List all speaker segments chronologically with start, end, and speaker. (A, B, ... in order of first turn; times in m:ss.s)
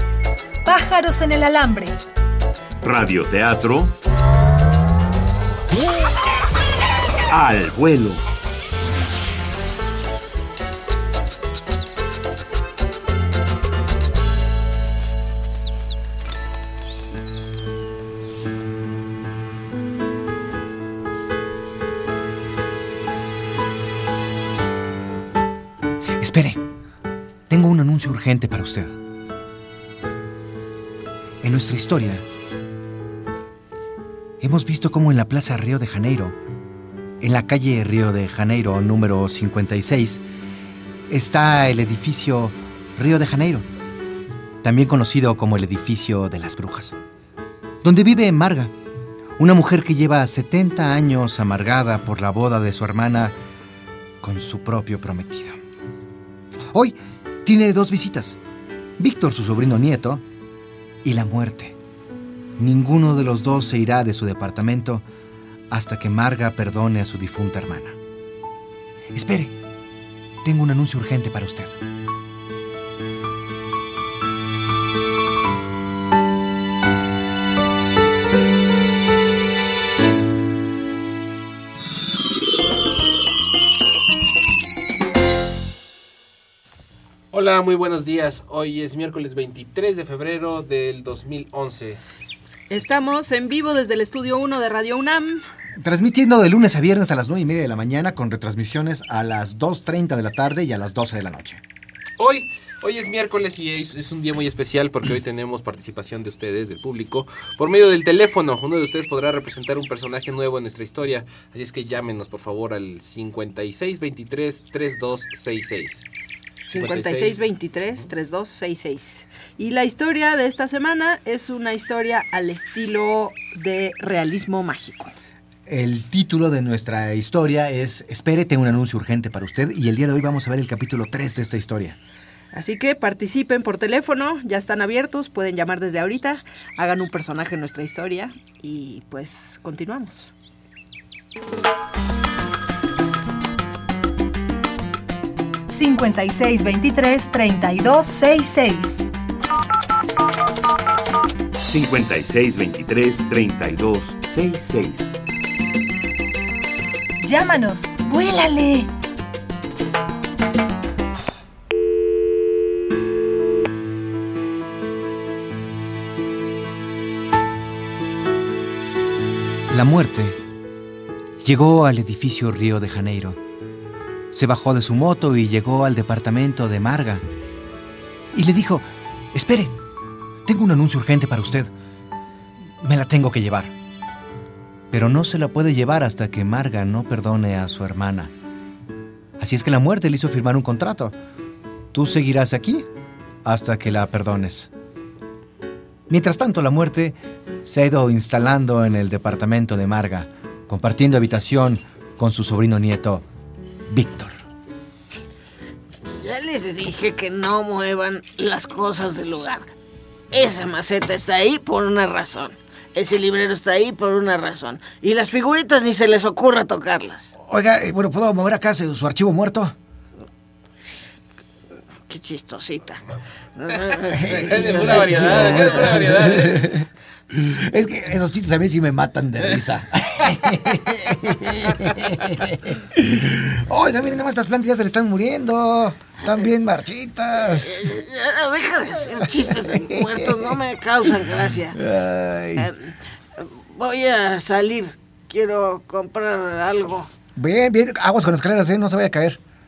0:00.6-0:02.0 A
0:02.8-0:03.9 B
0:07.3-0:08.2 B
0:26.2-0:26.6 C
0:27.5-0:28.9 C
0:31.4-0:32.2 C
0:34.4-0:36.4 C
0:37.2-0:40.2 C
0:41.1-0:43.6 C
0:44.6-0:46.9 C
0:47.8-0:48.7 C
0:49.4-0:53.3 C
0:54.2-0:55.6 C
0:56.7-0:58.4 C
0:59.0-1:00.2 C
1:01.0-1:01.8 C
1:02.6-1:05.0 C
1:05.7-1:08.0 C
1:09.1-1:09.5 C
1:10.4-1:11.8 C
1:27.3-1:32.0 D
1:32.7-1:35.4 E
1:35.8-1:41.6 C
1:42.2-1:56.0 D
1:56.7-1:57.4 D
1:56.7-2:05.1 E
2:05.6-2:12.0 C
2:12.5-2:20.3 E
2:25.7-2:29.1 A
2:31.6-2:35.2 B
2:37.2-2:38.9 A
2:49.7-2:50.4 C
2:51.4-2:53.4 C
2:54.3-2:57.2 C
2:58.3-2:59.8 C
3:00.4-3:01.7 C
3:02.8-3:03.7 C
3:04.9-3:08.3 C
3:09.4-3:11.2 C
3:11.9-3:12.8 C
3:13.4-3:14.7 C
3:16.1-3:23.2 C
3:23.9-3:24.4 C
3:26.1-3:29.7 F
3:30.3-3:37.3 F
3:37.4-3:39.7 C
3:42.1-3:43.0 F
3:43.6-3:46.2 F
3:44.1-3:46.8 D
3:44.2-3:57.9 C
3:57.6-4:01.8 F
3:59.3-4:02.7 C
4:02.6-4:07.1 F
4:07.4-4:09.4 C